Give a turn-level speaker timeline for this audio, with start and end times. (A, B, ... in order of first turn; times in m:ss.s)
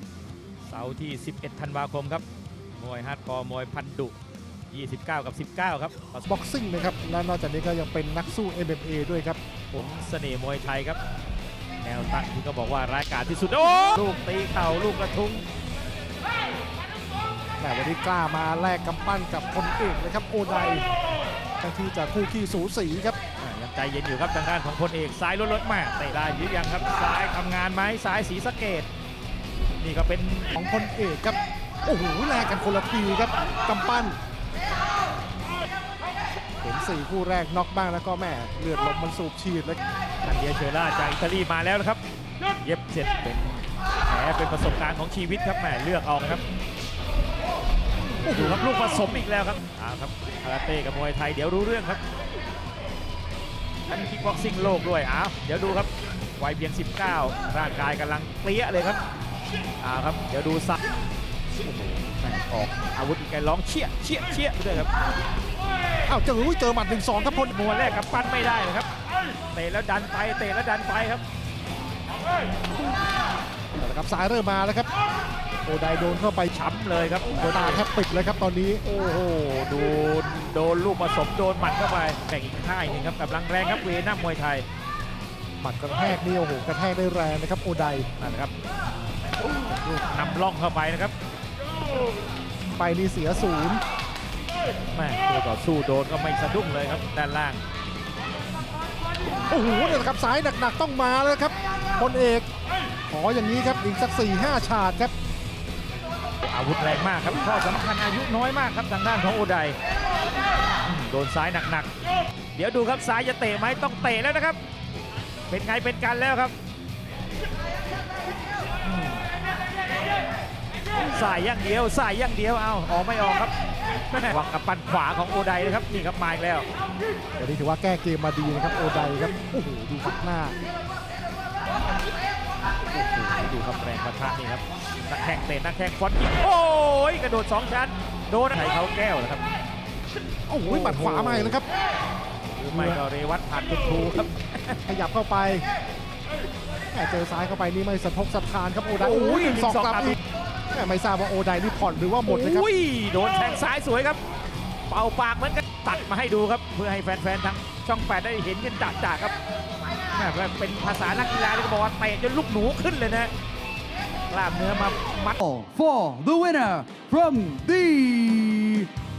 0:00.7-0:02.2 A
0:02.8-0:04.1 A
0:04.7-0:06.3 A
0:06.3-0:09.4 B
0:09.7-0:11.0 A
0:11.8-0:15.5 A
0:17.6-0:20.8 B
0:21.6-0:23.2 B
0:23.4-0:28.9 A
0:29.8-0:30.5 A
0:30.6-0:34.2 B
0:36.6-0:39.8 B
0:40.2-0:42.0 A
0:42.6-0:46.4 A
0:48.2-0:52.0 A
0:48.3-0:48.6 B
0:53.9-0:59.0 A
0:59.8-1:00.8 A
1:01.6-1:04.9 A
1:06.1-1:07.5 B
1:07.5-1:08.9 A
1:09.5-1:11.2 A
1:13.8-1:14.9 B
1:15.6-1:16.5 B
1:16.5-1:17.8 A
1:17.5-1:18.8 B
1:18.8-1:24.6 A
1:25.6-1:28.1 B
1:28.2-1:28.5 A
1:29.9-1:31.1 A
1:32.7-1:33.8 B
1:34.9-1:37.6 A
1:39.5-1:42.5 B
1:43.1-1:45.1 B
1:46.4-1:49.8 A
1:50.8-1:51.9 A
1:52.6-1:54.6 A
1:55.5-1:56.5 A
1:58.8-1:59.2 A
2:01.1-2:03.5 A
2:04.1-2:06.6 A
2:07.4-2:10.6 B
2:12.9-2:19.4 A
2:20.5-2:21.6 B
2:20.7-2:21.6 A
2:22.6-2:24.8 A
2:22.7-2:23.0 B
2:24.9-2:25.6 B
2:26.9-2:30.2 B
2:29.0-2:30.2 A
2:30.7-2:32.7 B
2:32.3-2:34.2 A
2:34.9-2:39.3 A
2:40.1-2:43.3 A
2:44.3-2:45.4 A
2:45.4-2:48.9 C